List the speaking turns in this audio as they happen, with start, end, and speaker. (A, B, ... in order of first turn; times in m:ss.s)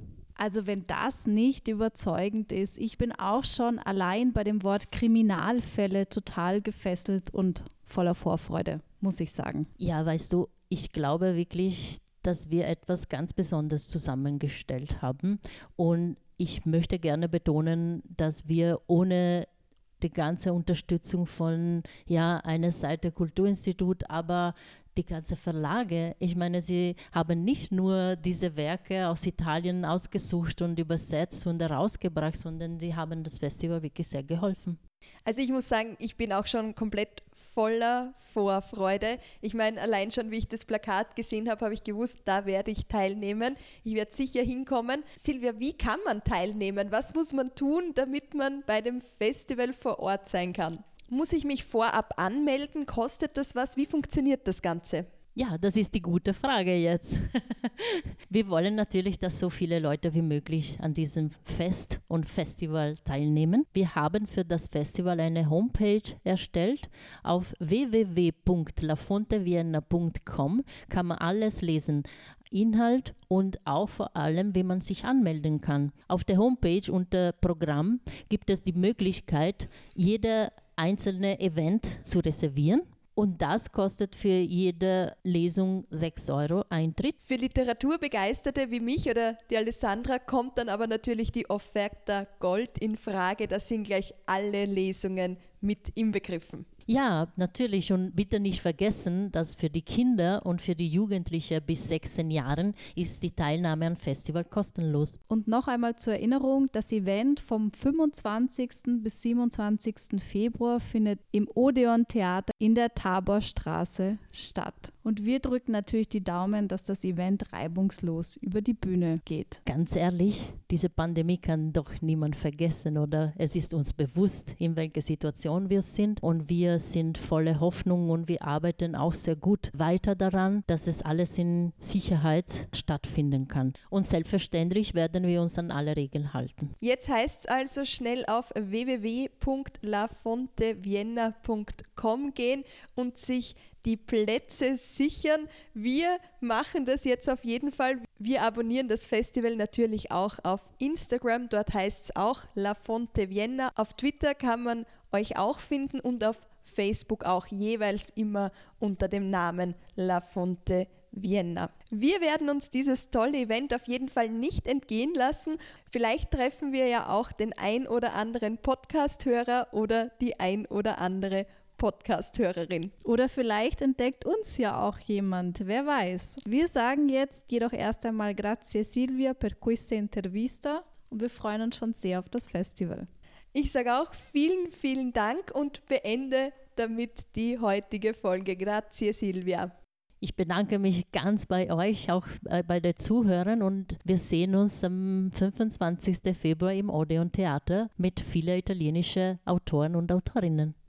0:00.4-0:09.7 A
0:09.8-0:19.5 B
0:20.0-0:34.8 B
0:35.2-0:55.1 C
0:55.3-1:27.2 B
1:27.2-1:36.7 C
1:36.9-1:45.2 B
1:45.3-1:59.6 A
1:59.6-2:16.7 B
2:16.8-2:52.9 C
2:53.0-3:03.1 A
3:03.5-3:09.7 C
3:10.2-3:20.7 B